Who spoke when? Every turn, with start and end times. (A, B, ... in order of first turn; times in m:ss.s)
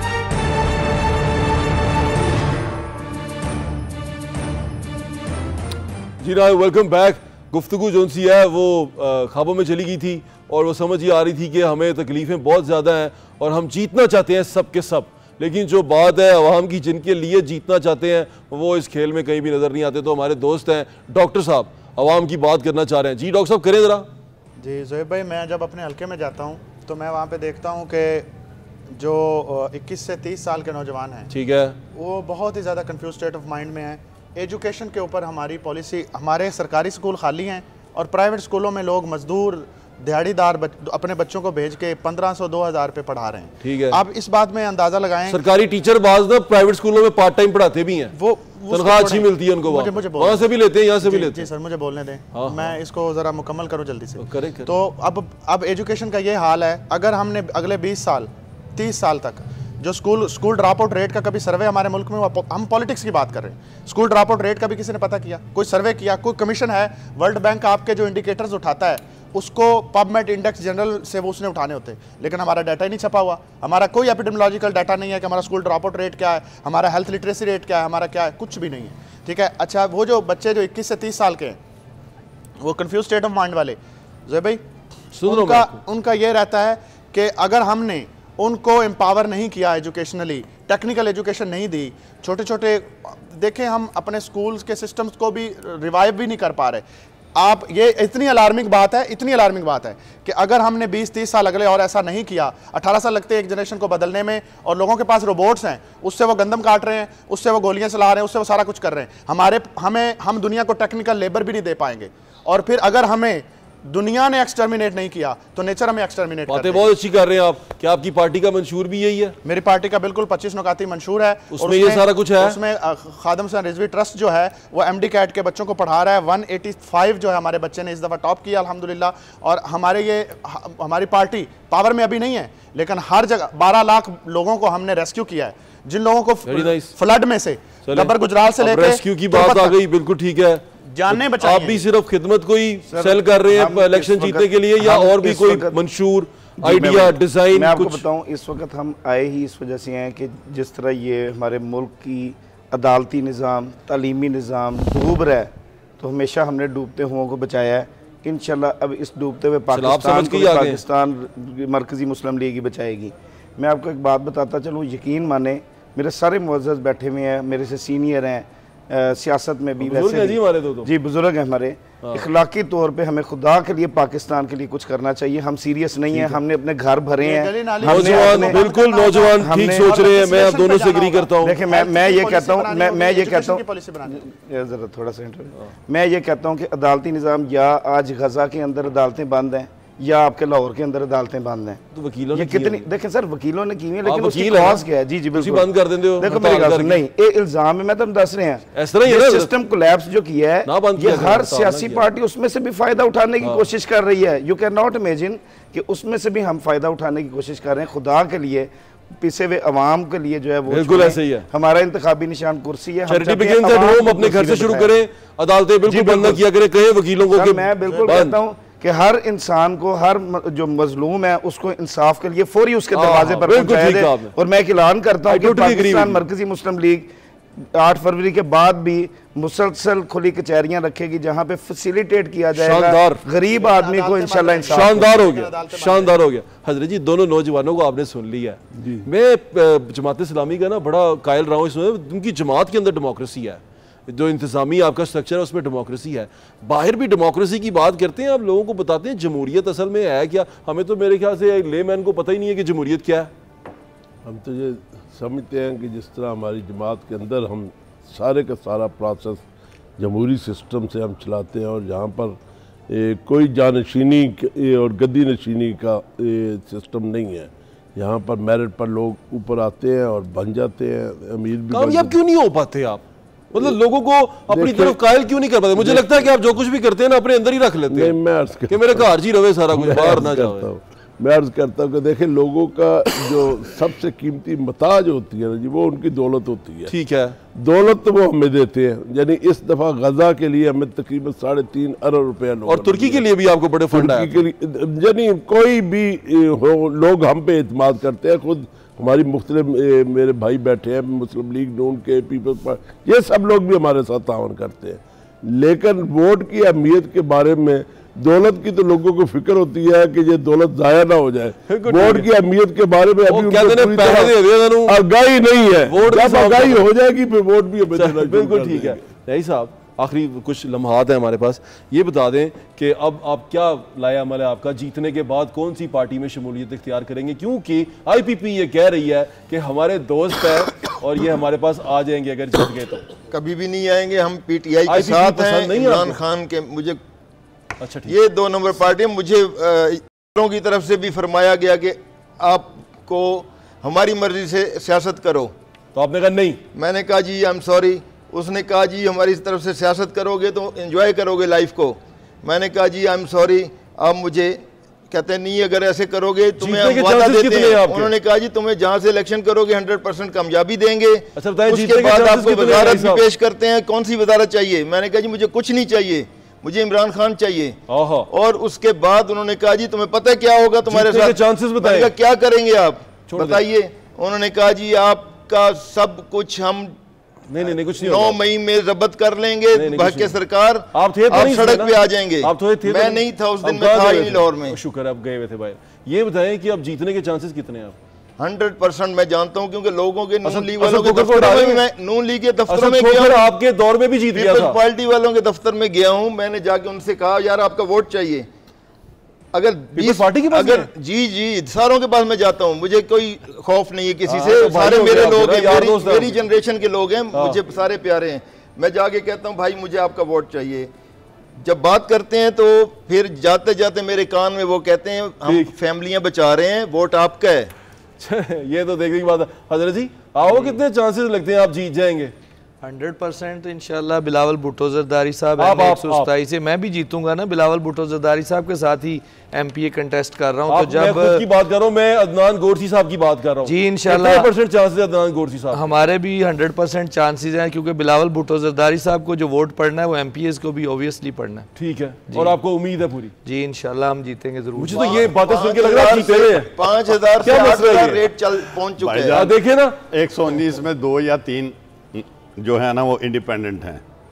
0:06.2-0:24.1 A
0:24.6-0:28.3 B
0:28.9-0:31.3 B
0:31.3-0:31.8 A
0:32.0-0:45.4 B
0:43.6-0:44.0 A
0:45.3-0:48.1 A
0:48.1-0:50.5 B
0:48.7-0:51.5 A
0:51.0-1:21.6 B
0:52.3-0:52.7 A
0:54.2-0:54.7 A
1:22.6-1:24.6 B
1:25.1-1:25.8 A
1:25.2-1:36.8 B
1:37.4-1:56.9 B
1:56.5-1:59.4 A
1:59.4-2:19.8 B
2:01.5-2:02.6 A
2:16.5-2:16.9 A
2:17.9-2:28.0 A
2:20.9-2:21.9 B
2:22.9-2:25.8 C
2:26.6-2:58.6 C
2:39.7-2:40.8 A
2:49.8-2:50.9 A
2:56.1-2:56.4 A
2:57.2-3:04.2 B
2:57.8-3:01.6 A
2:59.4-2:59.9 C
3:01.4-3:11.8 C
3:11.9-3:12.9 A
3:12.3-3:35.0 C
3:14.0-3:17.1 A
3:18.8-3:19.5 A
3:20.7-3:22.1 A
3:23.4-3:23.7 A
3:30.7-3:31.5 A
3:33.1-3:38.4 A
3:35.9-3:36.4 C
3:37.3-3:47.1 C
3:42.9-3:44.3 A
3:45.3-3:46.2 A
3:47.6-3:55.2 C
3:52.5-3:53.2 A
3:53.5-3:56.2 B
3:54.7-4:13.3 A
3:58.8-3:59.1 D
4:14.2-4:19.5 D
4:20.0-4:22.4 D
4:22.9-4:32.2 D
4:31.7-4:38.2 A
4:34.5-4:35.0 D
4:35.8-4:36.3 D
4:37.9-4:39.1 D
4:38.7-4:40.7 A
4:39.7-4:46.9 D
4:46.9-4:47.4 A
4:47.6-4:53.3 D
4:52.7-4:54.5 A
4:53.9-5:19.0 D
5:11.7-5:12.3 A
5:13.3-5:15.0 A
5:15.9-5:16.9 A
5:18.0-5:33.1 A
5:33.3-5:37.0 E
5:34.9-5:36.2 A
5:37.8-5:38.2 A
5:38.1-5:45.5 E
5:46.0-5:46.6 A
5:46.7-6:07.8 E
5:56.6-5:58.1 A
6:01.4-6:03.2 A
6:07.9-6:08.3 A
6:08.3-6:17.0 E
6:10.8-6:12.1 A
6:13.3-6:13.6 A
6:17.5-6:18.4 A
6:17.6-6:24.8 E
6:19.7-6:20.3 A
6:20.9-6:28.0 A
6:28.4-6:33.5 E
6:30.4-6:31.8 A
6:32.7-6:34.8 A
6:34.3-6:38.5 E
6:39.5-6:50.9 E
6:39.9-6:40.9 A
6:44.3-6:46.4 A
6:47.3-6:47.6 A
6:51.6-6:57.7 E
6:55.4-6:55.7 A
6:58.2-7:02.3 A
7:00.5-7:00.8 F
7:02.8-7:11.5 F
7:05.6-7:06.3 A
7:10.7-7:15.8 A
7:13.6-7:14.5 F
7:15.7-7:21.7 F
7:21.8-7:23.3 A
7:22.3-7:22.6 F
7:23.4-7:25.4 F
7:24.8-7:26.7 A
7:24.9-7:29.4 E
7:27.4-7:28.3 A
7:29.0-7:29.5 G
7:29.3-7:30.0 A
7:30.1-7:34.0 G